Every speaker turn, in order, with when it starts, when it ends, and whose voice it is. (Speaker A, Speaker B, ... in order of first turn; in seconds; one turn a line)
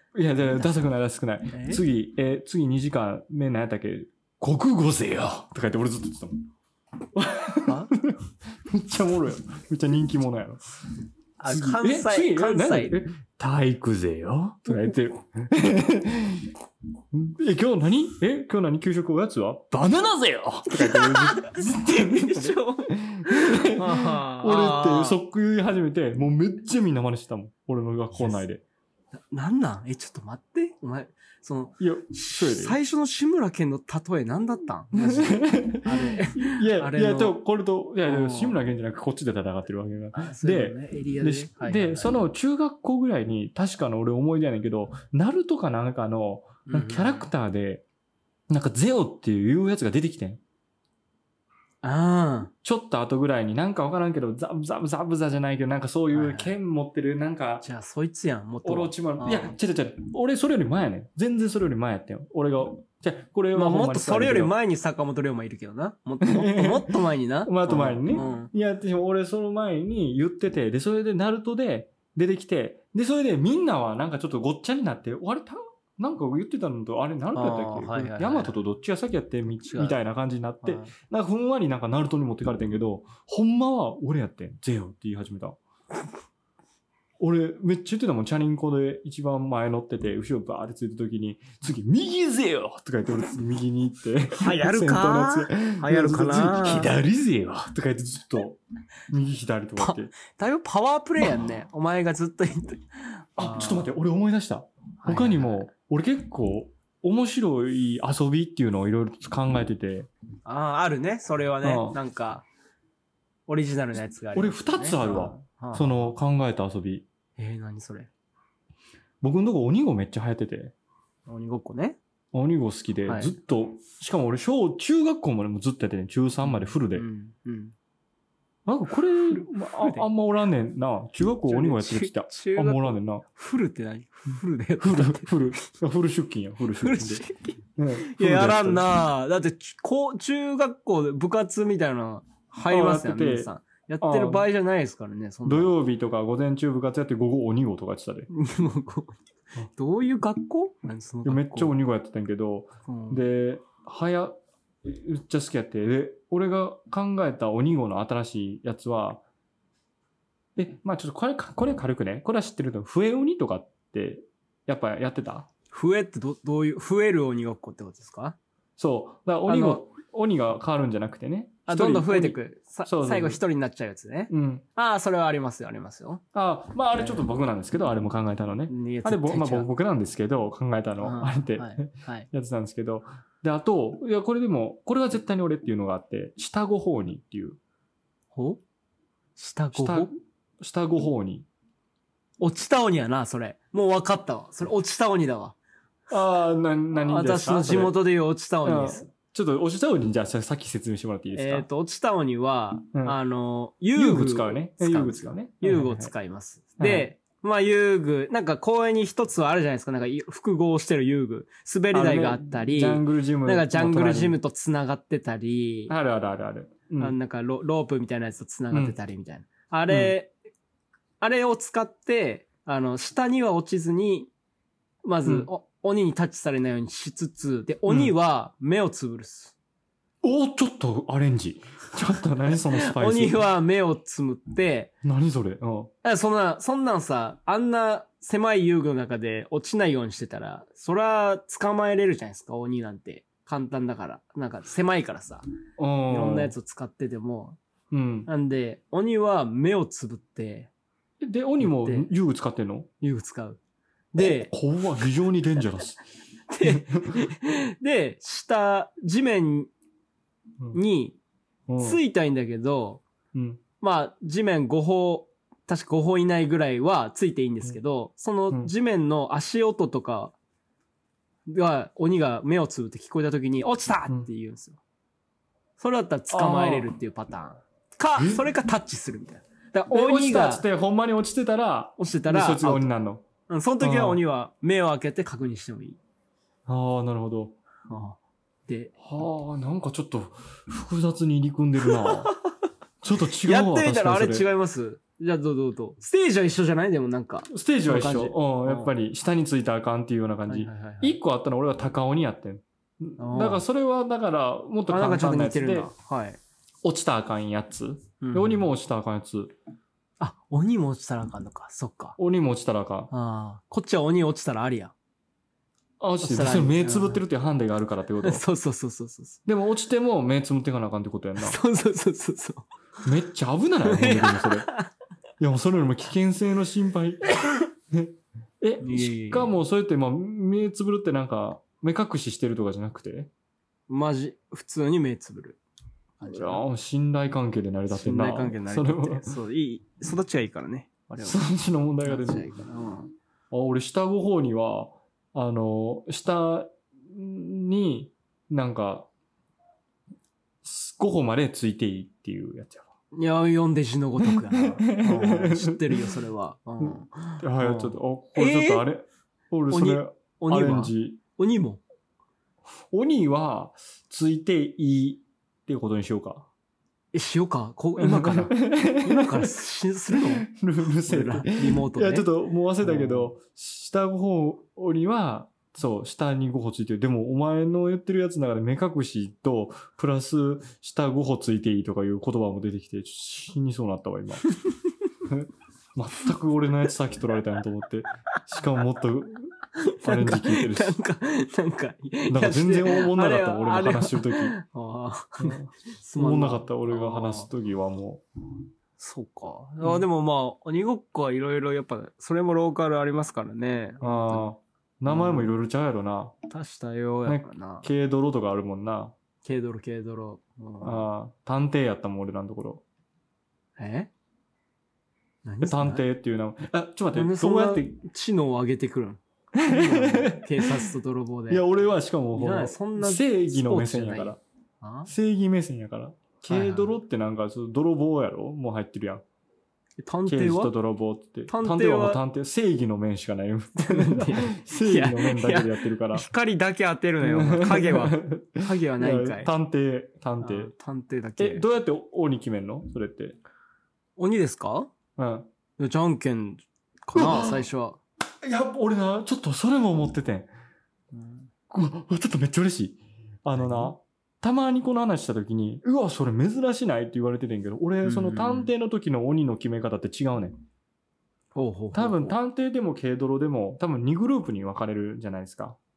Speaker A: 0.1-6.4
Speaker B: 0.4-0.9
Speaker B: 1.5-1.8
Speaker A: 7.1-10.6
Speaker B: 7.7-7.9
Speaker B: 11.4-13.0
Speaker A: 11.4-16.5
Speaker A: 17.1-28.6
Speaker B: 20.7-25.2
Speaker B: 28.1-28.4
Speaker B: 29.3-37.4
Speaker A: 31.8-32.8
Speaker A: 34.9-47.8
Speaker B: 38.0-38.6
Speaker B: 40.1-42.2
Speaker B: 46.7-47.3
Speaker A: 48.5-50.4
Speaker B: 51.8-52.5
Speaker A: 52.6-57.6
Speaker B: 56.1-56.6
Speaker B: 57.6-59.5
Speaker A: 58.6-64.5
Speaker B: 63.5-68.5
Speaker A: 66.2-85.6
Speaker B: 77.3-78.6
Speaker B: 79.5-80.0
Speaker B: 80.6-80.9
Speaker A: 87.2-100.1
Speaker B: 94.4-97.0
Speaker B: 99.8-103.9
Speaker A: 103.4-110.1
Speaker B: 105.0-105.7
Speaker B: 110.5-112.5
Speaker A: 111.6-112.0
Speaker B: 113.5-116.1
Speaker A: 114.3-117.1
Speaker B: 117.4-118.1
Speaker A: 119.2-120.7
Speaker B: 121.3-122.0
Speaker A: 122.3-127.0
Speaker B: 123.1-123.3
Speaker B: 126.5-127.8
Speaker A: 128.7-133.2
Speaker B: 129.3-130.1
Speaker B: 131.5-135.6
Speaker A: 134.8-137.2
Speaker B: 136.8-145.7
Speaker A: 137.8-138.9
Speaker A: 142.7-143.5
Speaker A: 144.0-144.5
Speaker A: 145.4-148.3
Speaker B: 148.3-151.8
Speaker A: 151.2-159.2
Speaker B: 152.9-153.2
Speaker A: 160.6-165.5
Speaker B: 165.7-168.4
Speaker A: 168.8-173.4
Speaker B: 169.5-169.8
Speaker B: 171.7-176.2
Speaker A: 174.3-174.6
Speaker A: 176.3-187.6
Speaker B: 177.0-177.2
Speaker B: 178.7-179.7
Speaker B: 181.0-182.3
Speaker B: 188.3-188.6
Speaker B: 189.4-190.1
Speaker A: 189.7-191.5
Speaker B: 192.4-195.6
Speaker A: 196.1-198.0
Speaker B: 197.0-199.1
Speaker A: 198.6-201.7
Speaker B: 201.3-215.9
Speaker A: 203.9-206.1
Speaker A: 206.8-207.1
Speaker A: 211.9-214.4
Speaker A: 215.9-217.2
Speaker B: 217.0-220.3
Speaker A: 218.7-219.0
Speaker A: 219.9-220.2
Speaker B: 221.2-224.3
Speaker B: 225.0-229.6
Speaker A: 227.9-228.1
Speaker A: 230.2-233.4
Speaker B: 232.5-234.9
Speaker A: 235.0-235.9
Speaker B: 236.0-245.5
Speaker A: 245.8-246.5
Speaker B: 246.1-247.6
Speaker A: 247.9-248.3
Speaker B: 248.3-250.7
Speaker A: 251.2-252.9
Speaker B: 251.6-252.1
Speaker B: 253.0-253.6
Speaker B: 254.1-254.5
Speaker A: 254.2-256.0
Speaker B: 256.5-259.7
Speaker A: 256.6-257.2
Speaker B: 260.7-261.2
Speaker A: 261.7-262.0
Speaker B: 261.8-263.0
Speaker A: 263.3-263.6
Speaker B: 263.8-270.3
Speaker B: 271.5-274.8
Speaker B: 275.8-280.7
Speaker A: 276.3-276.9
Speaker A: 278.2-278.4
Speaker A: 279.9-283.3
Speaker B: 282.0-282.9
Speaker B: 283.5-286.0
Speaker A: 283.8-284.2
Speaker A: 286.7-287.6
Speaker B: 287.9-289.0
Speaker A: 289.0-292.3
Speaker B: 291.8-292.2
Speaker A: 293.0-294.5
Speaker B: 293.4-298.9
Speaker A: 297.5-305.9
Speaker B: 300.5-301.2
Speaker B: 303.2-303.6
Speaker B: 304.9-306.4
Speaker A: 306.8-309.5
Speaker B: 308.2-308.7
Speaker B: 310.2-312.2
Speaker A: 312.2-313.1
Speaker B: 313.1-314.9
Speaker A: 316.0-318.4
Speaker B: 316.2-317.2
Speaker B: 318.2-319.4
Speaker A: 319.5-321.6
Speaker B: 321.4-322.7
Speaker A: 323.1-324.7
Speaker B: 323.9-324.9
Speaker A: 325.4-333.3
Speaker B: 328.8-329.6
Speaker B: 333.9-335.6
Speaker B: 336.2-336.6
Speaker A: 336.2-339.3
Speaker B: 337.9-341.5
Speaker A: 341.2-342.5
Speaker B: 342.0-343.1
Speaker A: 343.5-349.1
Speaker A: 350.6-352.9
Speaker B: 353.1-358.9
Speaker A: 354.2-356.1
Speaker A: 356.8-361.2
Speaker B: 359.7-361.8
Speaker A: 362.9-366.5
Speaker B: 367.1-370.5
Speaker A: 368.0-369.5
Speaker A: 370.1-384.5
Speaker B: 371.0-372.3
Speaker B: 372.8-373.3
Speaker B: 384.5-384.8
Speaker A: 385.2-391.0
Speaker B: 389.8-397.5
Speaker A: 392.3-394.6
Speaker A: 395.4-398.2
Speaker B: 399.0-404.5
Speaker A: 404.0-406.3
Speaker B: 405.1-405.5
Speaker B: 406.5-407.9
Speaker A: 407.2-409.1
Speaker B: 409.4-411.1
Speaker A: 410.8-412.8
Speaker B: 413.8-414.1
Speaker B: 415.4-416.0
Speaker A: 415.6-417.9
Speaker B: 417.1-421.7
Speaker A: 419.5-420.8
Speaker A: 421.5-424.4
Speaker B: 422.3-425.1
Speaker A: 425.1-429.2
Speaker B: 426.5-426.9
Speaker B: 430.0-430.7
Speaker A: 430.3-436.3
Speaker B: 431.5-432.2
Speaker B: 433.8-439.5
Speaker A: 437.2-440.7
Speaker B: 440.4-441.6
Speaker A: 441.4-443.4
Speaker B: 444.2-444.9
Speaker A: 445.2-445.5
Speaker B: 445.8-448.0
Speaker A: 447.1-447.7
Speaker A: 448.4-450.5
Speaker B: 451.1-451.5
Speaker A: 451.7-460.6
Speaker B: 453.6-453.9
Speaker B: 458.0-458.7
Speaker B: 461.6-462.4
Speaker A: 461.9-465.8